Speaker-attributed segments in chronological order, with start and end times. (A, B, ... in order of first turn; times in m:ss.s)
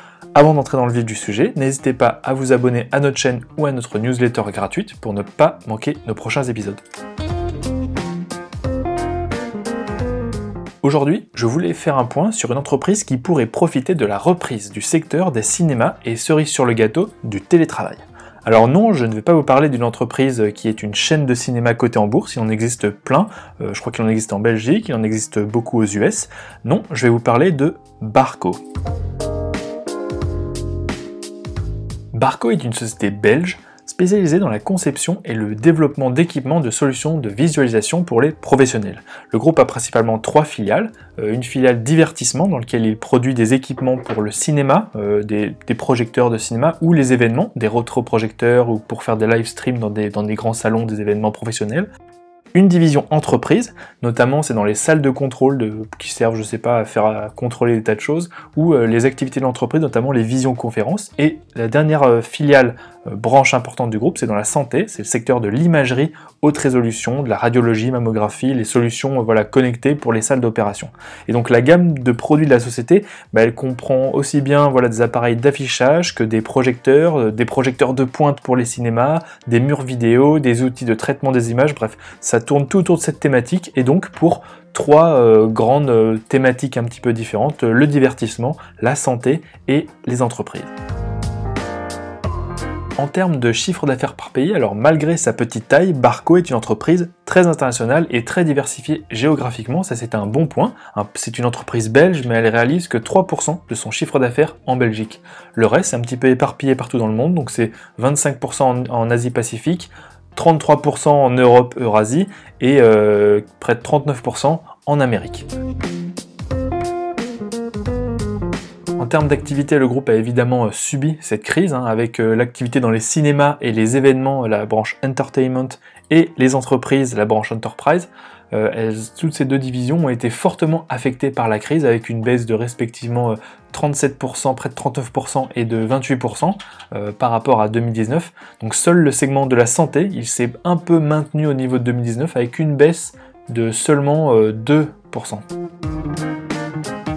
0:00.4-0:06.8 A
0:10.8-0:28.6 A
0:32.1-0:51.9 A
0:52.5-1:30.7 A
1:33.0-1:55.5 A
1:59.0-2:25.4 A